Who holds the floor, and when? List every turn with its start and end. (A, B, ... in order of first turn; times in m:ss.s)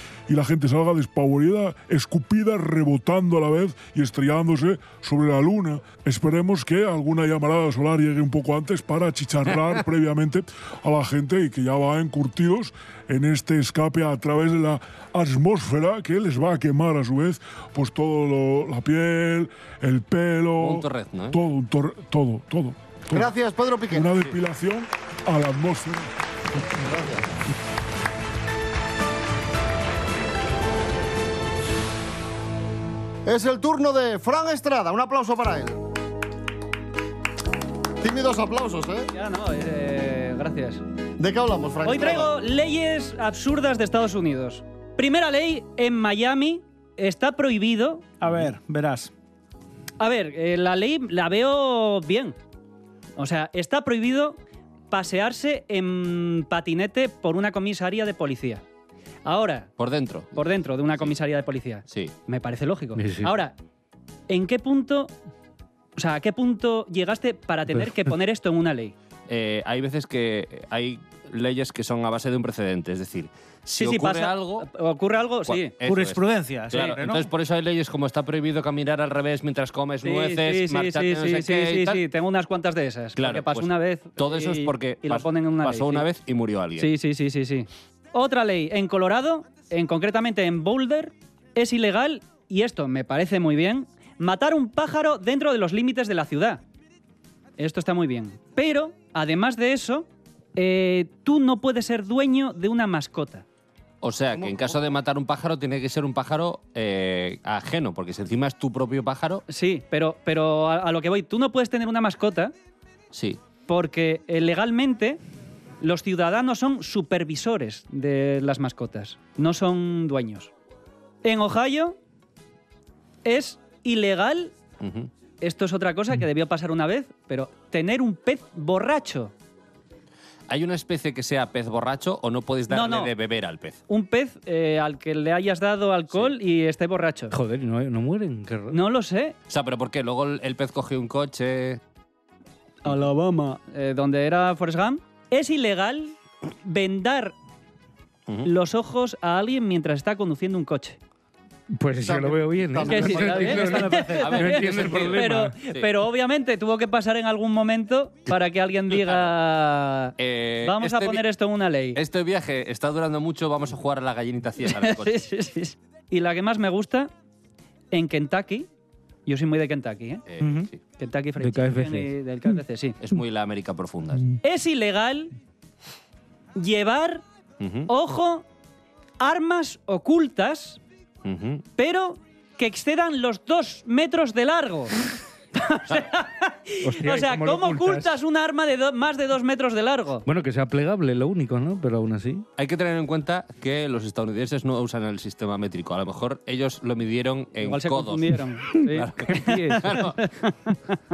0:00.3-0:23.3 A
0:20.6-0:21.4 B
0:23.1-0:24.2 C
0:23.9-0:26.1 A
0:26.7-0:27.3 C
0:33.2-0:35.8 C
0:38.0-0:39.1 C
0:39.1-0:40.8 D
0:41.2-0:42.4 C
0:41.8-0:48.0 D
0:48.2-0:49.1 E
0:50.0-0:52.4 D
0:53.2-0:54.4 D
0:54.9-0:58.6 D
0:59.2-0:59.7 D
0:59.8-1:00.4 B
1:00.3-1:03.5 D
1:01.9-1:02.1 B
1:03.0-1:03.4 F
1:04.3-1:05.1 D
1:06.0-1:08.9 D
1:09.3-1:14.6 B
1:13.7-1:15.7 D
1:15.5-1:22.0 B
1:15.8-1:17.3 E
1:20.0-1:26.0 D
1:23.2-1:26.9 B
1:26.8-1:36.6 D
1:37.6-1:43.4 D
1:44.0-1:49.4 B
1:49.5-1:52.5 D
1:53.1-1:53.4 B
1:53.7-1:55.2 D
1:55.8-2:00.5 D
2:01.2-2:02.0 D
2:03.2-2:04.5 D
2:04.8-2:05.1 B
2:05.4-2:09.3 D
2:10.5-2:13.8 B
2:12.7-2:13.1 D
2:13.9-2:17.3 D
2:17.3-2:18.8 F
2:18.7-2:19.4 D
2:19.5-2:21.8 B
2:22.8-2:27.3 D
2:28.4-2:31.0 D
2:31.7-2:35.6 F
2:32.0-2:33.5 C
2:32.8-2:42.0 D
2:33.3-2:34.8 E
2:34.2-2:35.9 B
2:38.9-2:39.3 B
2:40.2-2:41.2 B
2:41.9-2:45.2 B
2:44.6-2:47.1 D
2:47.9-2:48.7 D
2:49.2-2:50.2 D
2:50.3-2:50.8 B
2:50.4-2:50.7 E
2:51.0-2:53.0 D
2:51.4-2:52.1 F
2:53.0-2:54.3 B
2:54.4-2:55.3 D
2:56.6-2:57.2 D
2:57.6-2:57.9 B
2:57.9-2:58.4 D
2:59.2-3:00.8 D
3:01.2-3:01.6 B
3:01.8-3:04.9 D
3:05.6-3:10.2 D
3:06.8-3:08.2 F
3:10.2-3:12.4 F
3:12.6-3:20.2 B
3:17.6-3:21.0 D
3:19.2-3:20.0 F